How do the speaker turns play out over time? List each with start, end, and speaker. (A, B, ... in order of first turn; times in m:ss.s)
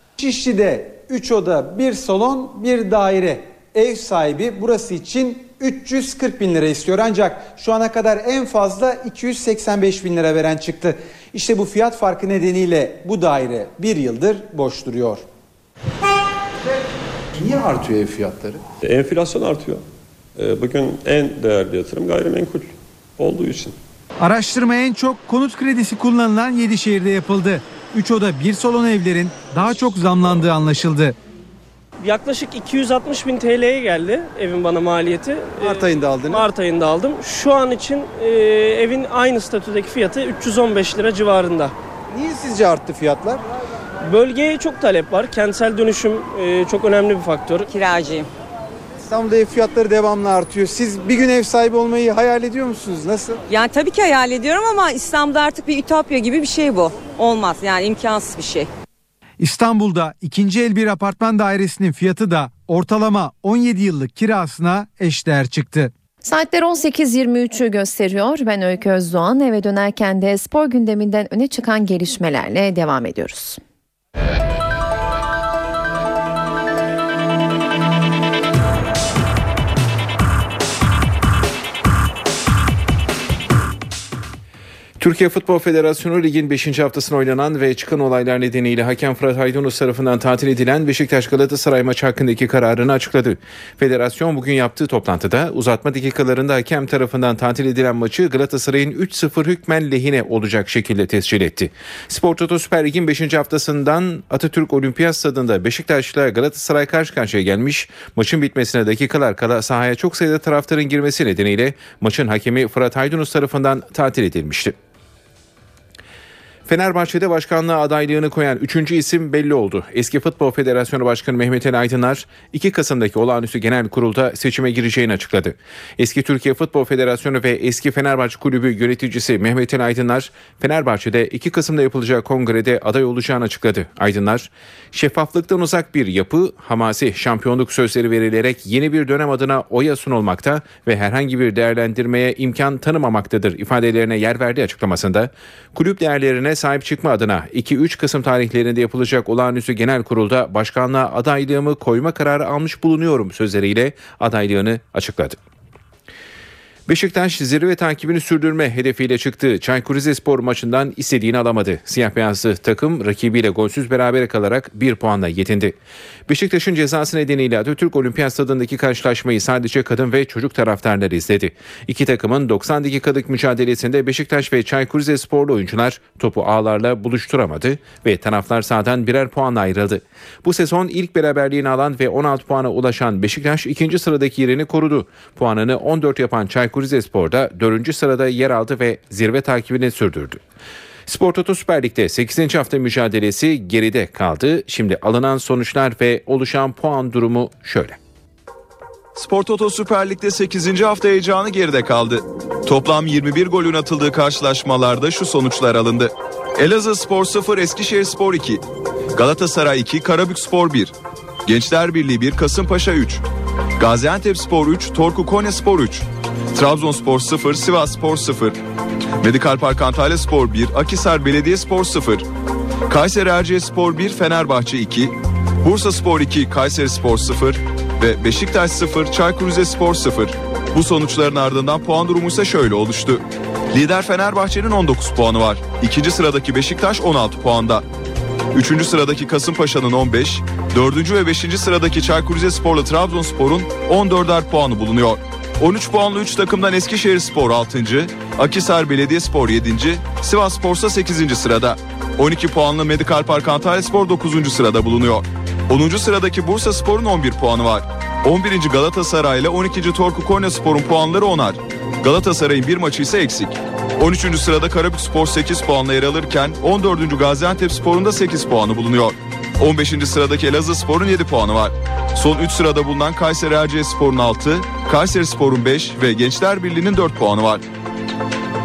0:00.2-0:15.2 A
0:18.8-0:19.8 B
0:20.4-0:23.7 B
0:24.2-0:31.2 C
0:32.0-0:41.7 D
0:44.0-0:47.7 D
0:47.7-0:48.3 E
0:49.1-0:53.4 A
0:53.5-0:58.7 E
0:59.4-1:05.9 C
1:06.2-1:13.6 F
1:25.0-1:54.8 G
1:56.7-2:35.4 G
2:36.9-3:10.4 G
3:11.1-3:18.0 G
3:19.2-3:28.6 H
3:29.2-3:30.9 H
3:31.5-3:33.2 H
3:33.8-3:38.6 H
3:39.2-3:42.2 H
3:42.9-3:57.8 H
3:58.5-4:37.6 H